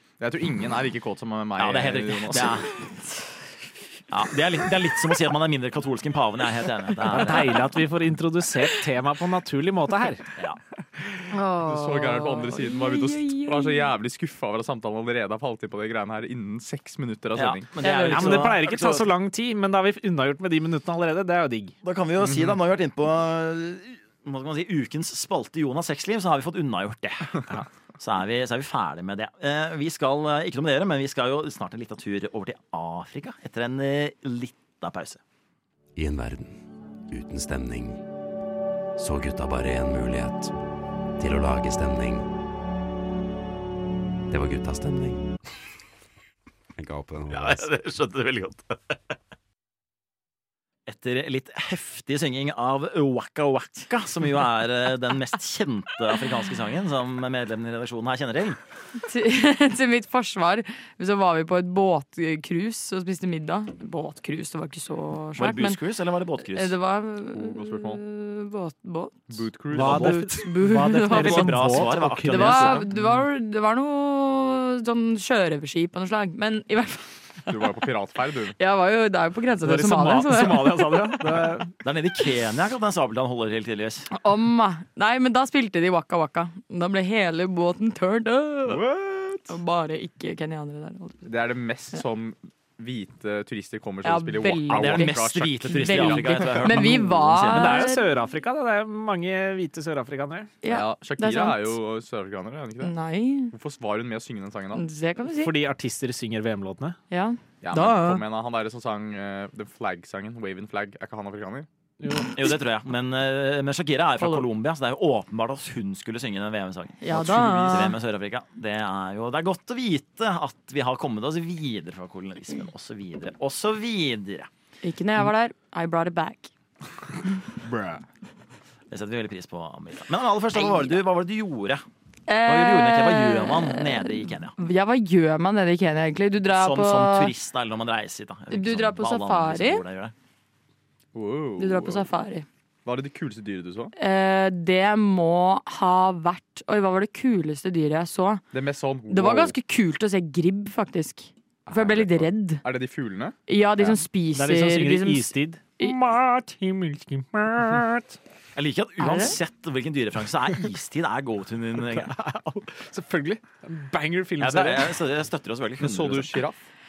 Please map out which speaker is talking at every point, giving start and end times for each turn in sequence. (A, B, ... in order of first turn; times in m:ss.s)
0:00.2-0:02.6 A
0:01.6-0:02.7 B
0:04.1-0:07.7 B
0:07.1-0:10.2 C
0:11.3-0:13.9 D
0:11.6-0:17.7 A
0:17.3-0:19.1 B
0:17.8-0:18.5 D
0:17.8-0:21.7 C
0:21.8-0:35.2 B
0:22.2-0:22.6 A
0:36.0-0:38.0 E
0:39.0-0:40.5 E
0:41.2-0:42.3 E
0:44.3-0:45.3 E
0:46.8-0:47.7 E
0:47.3-0:48.8 B
0:50.8-0:58.6 B
0:59.0-1:05.8 D
1:05.4-1:06.7 B
1:06.4-1:09.3 D
1:07.3-1:08.0 A
1:09.3-1:10.2 A
1:09.7-1:12.9 C
1:09.8-1:12.9 B
1:09.8-1:11.7 D
1:12.2-1:17.6 D
1:17.5-1:18.6 A
1:18.6-1:21.0 D
1:19.6-1:21.7 C
1:21.8-1:24.1 B
1:24.1-1:28.9 D
1:28.6-1:29.6 A
1:29.4-1:31.2 D
1:31.2-1:37.0 A
1:34.0-1:38.1 D
1:34.7-1:37.9 B
1:37.5-1:40.5 C
1:40.6-1:41.8 D
1:40.6-1:42.9 A
1:42.8-1:43.5 D
1:43.5-1:44.8 A
1:44.7-1:45.5 D
1:45.4-1:47.0 C
1:47.1-1:48.2 D
1:47.6-1:51.7 A
1:52.0-1:52.3 C
1:52.3-2:04.5 B
1:54.2-1:54.4 D
1:57.0-1:57.9 D
1:57.1-1:57.9 A
2:04.8-2:06.5 D
2:07.6-2:08.0 A
2:08.9-2:11.8 B
2:10.5-2:10.9 D
2:12.3-2:17.3 D
2:12.4-2:14.5 B
2:16.5-2:20.1 B
2:18.5-2:19.8 D
2:21.1-2:22.0 A
2:21.6-2:22.4 D
2:22.8-2:23.9 A
2:24.0-2:28.4 D
2:28.5-2:29.6 A
2:29.1-2:32.6 D
2:31.6-2:34.0 A
2:33.5-2:35.9 D
2:34.3-2:38.2 C
2:38.6-2:42.1 B
2:39.0-2:39.4 D
2:41.8-2:45.0 C
2:44.4-2:46.4 B
2:45.8-2:46.6 A